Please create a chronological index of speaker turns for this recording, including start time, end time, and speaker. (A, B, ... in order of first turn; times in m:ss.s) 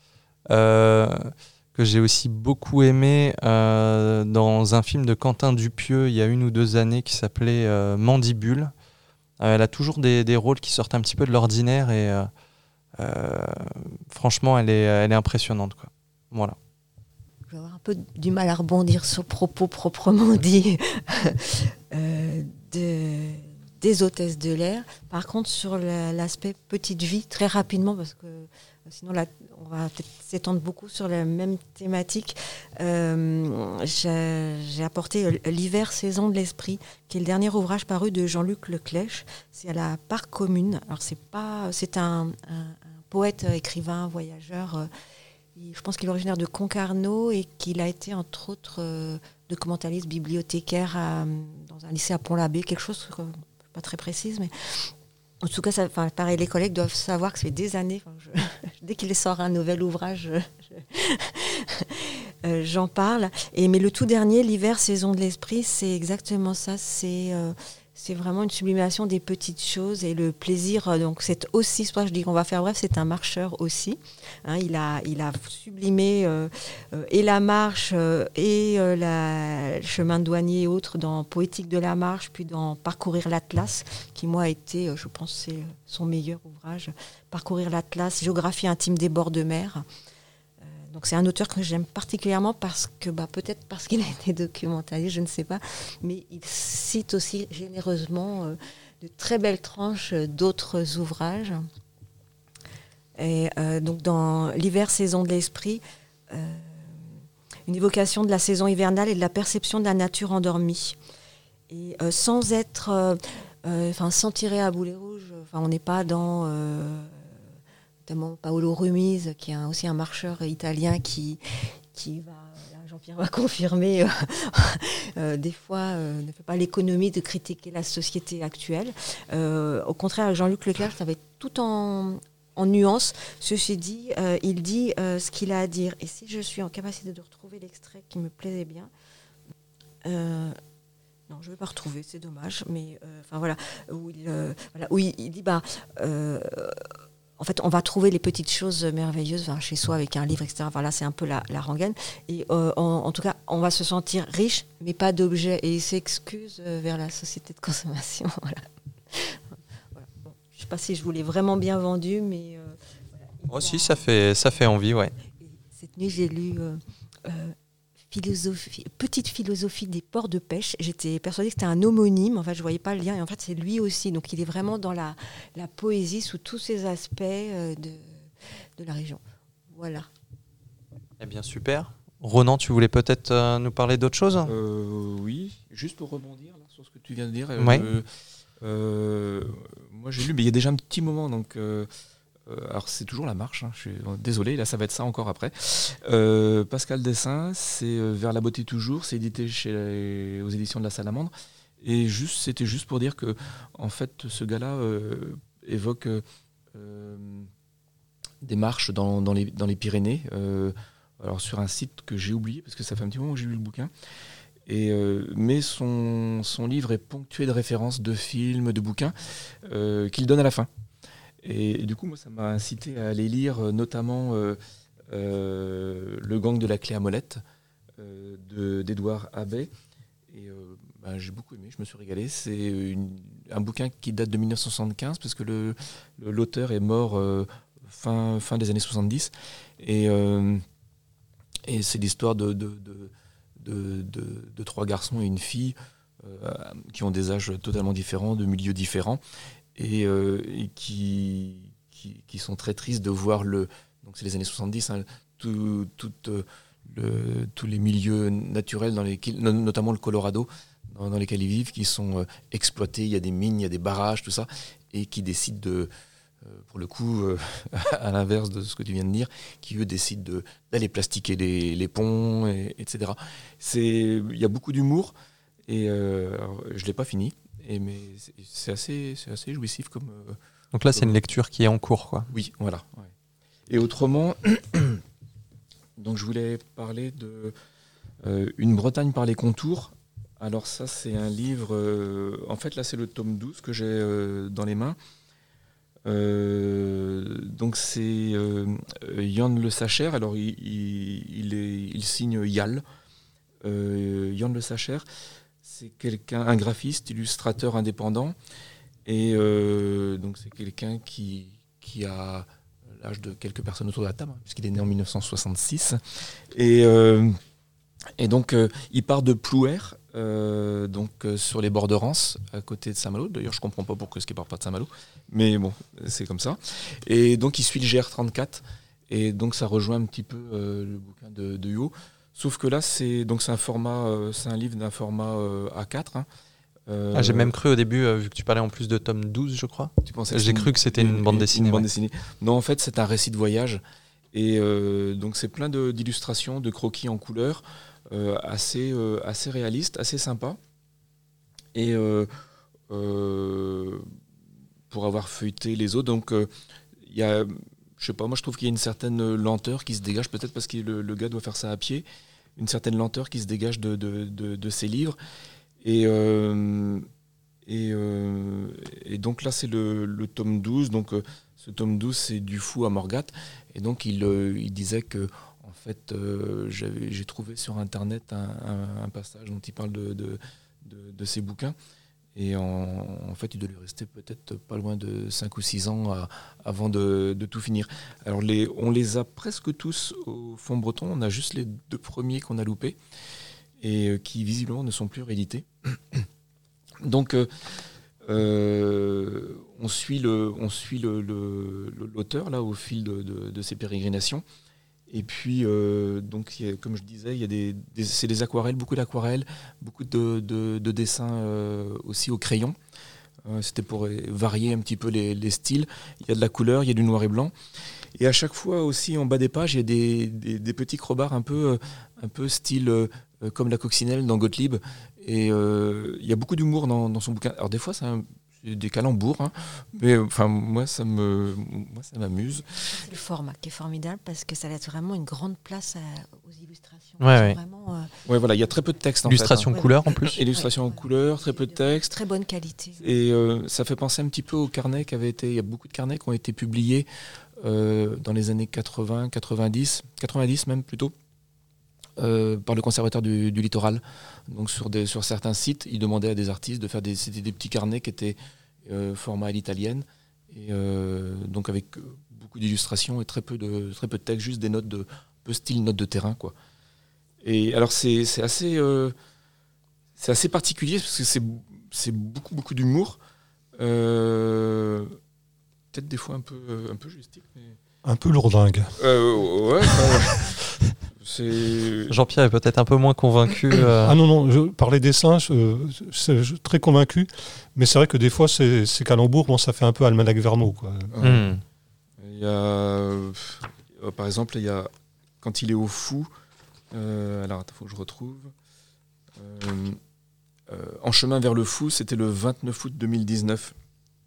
0:00.5-0:08.7 A
0:09.4-0:12.3 A
0:13.0-0:16.6 A
0:17.5-0:44.9 B
0:45.6-1:29.8 B
1:30.9-1:41.7 B
1:43.2-1:51.0 B
1:51.7-1:57.3 B
1:58.1-2:01.4 B
2:01.9-2:18.9 B
2:20.0-2:20.6 B
2:21.3-2:26.9 B
2:27.4-2:39.4 B
2:40.0-2:44.0 B
2:43.5-2:45.1 A
2:45.4-2:47.6 B
2:48.1-2:58.2 B
2:58.8-3:00.1 B
3:01.2-3:04.5 A
3:04.4-3:08.1 C
3:07.6-3:07.9 A
3:08.6-3:11.9 C
3:12.5-3:27.5 C
3:28.4-3:33.9 C
3:34.7-3:40.7 C
3:41.4-3:44.6 C
3:45.1-3:47.4 C
3:48.0-3:49.7 C
3:50.3-4:00.6 C
4:01.7-4:09.2 C
4:09.8-4:25.9 C
4:26.4-4:35.1 C
4:35.7-4:40.4 C
4:40.7-4:42.3 A
4:42.3-4:43.1 C
4:43.7-4:45.0 C
4:46.0-4:47.6 C
4:48.2-4:55.0 C
4:56.1-5:02.8 C
5:03.6-5:05.1 C
5:05.6-5:08.4 C
5:09.0-5:16.0 C
5:16.5-5:17.4 C
5:18.2-5:36.3 C
5:36.9-5:37.5 C
5:37.1-5:41.9 A
5:40.0-5:43.8 C
5:44.3-5:50.6 C
5:51.7-5:52.3 C
5:52.9-5:54.1 C
5:54.9-6:02.0 C
6:02.6-6:05.2 C
6:05.8-6:07.1 C
6:07.7-6:21.8 C
6:22.4-6:33.0 C
6:33.8-6:36.3 C
6:37.0-6:37.5 C
6:38.2-6:44.4 C
6:45.1-6:52.8 C
6:53.4-6:57.5 C
6:58.2-7:12.6 C
7:12.9-7:18.1 B
7:17.2-7:17.6 A
7:18.3-7:22.1 C
7:19.2-7:20.4 A
7:19.7-7:20.0 B
7:20.5-7:23.0 B
7:23.0-7:27.1 C
7:27.6-7:31.1 C
7:32.2-7:46.6 C
7:47.4-7:49.2 C
7:50.2-7:53.2 C
7:53.8-7:55.2 C
7:55.9-7:57.8 C
7:58.0-7:58.9 D
7:59.0-8:00.6 C
8:01.2-8:02.2 C
8:02.1-8:04.2 A
8:04.0-8:11.1 D
8:11.1-8:11.5 C
8:11.2-8:11.6 A
8:12.2-8:14.9 C
8:15.4-8:16.3 C
8:16.9-8:18.5 C
8:19.4-8:20.0 C
8:20.7-8:23.8 C